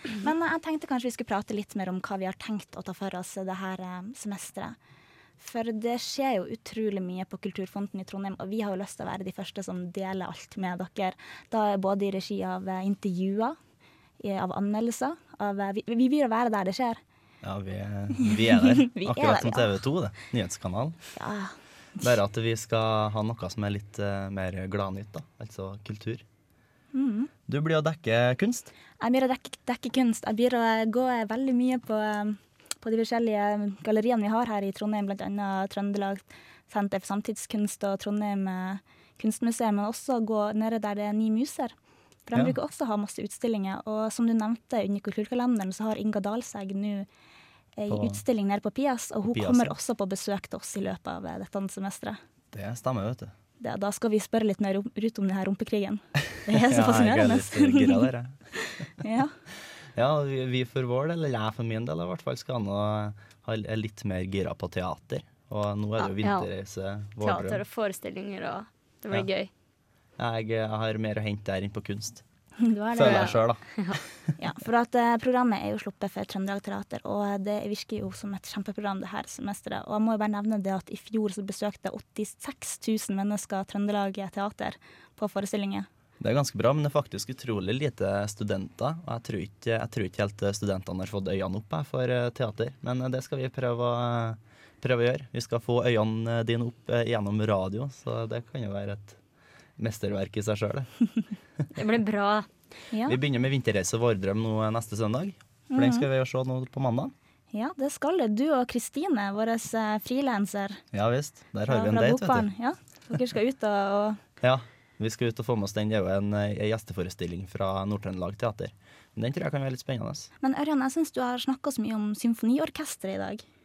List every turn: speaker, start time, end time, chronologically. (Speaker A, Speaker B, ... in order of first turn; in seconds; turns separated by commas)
Speaker A: 0.2-4.8, Speaker A: 5.4-13.6, Speaker A: 14.2-17.0, Speaker B: 17.4-21.0, Speaker A: 18.2-19.7, Speaker A: 21.1-22.1, Speaker B: 22.0-26.2, Speaker A: 26.9-27.3, Speaker B: 27.5-28.7, Speaker A: 29.0-41.7, Speaker A: 42.2-47.1, Speaker A: 47.8-52.2, Speaker B: 47.9-48.2, Speaker B: 49.3-49.8, Speaker B: 52.5-53.3, Speaker A: 53.6-58.1, Speaker B: 56.5-58.3, Speaker A: 59.0-59.3, Speaker B: 59.9-67.6, Speaker C: 66.2-66.5, Speaker C: 67.2-69.5, Speaker B: 70.2-72.2, Speaker C: 72.8-74.0, Speaker A: 72.9-73.3, Speaker B: 72.9-74.1, Speaker A: 74.4-85.9, Speaker B: 86.2-99.2, Speaker B: 99.8-100.9, Speaker C: 101.7-102.5, Speaker A: 102.9-103.2, Speaker B: 103.0-107.1, Speaker A: 105.7-106.0, Speaker A: 107.5-110.8, Speaker B: 110.9-112.5, Speaker A: 111.7-114.2, Speaker B: 114.4-120.3, Speaker A: 120.4-123.4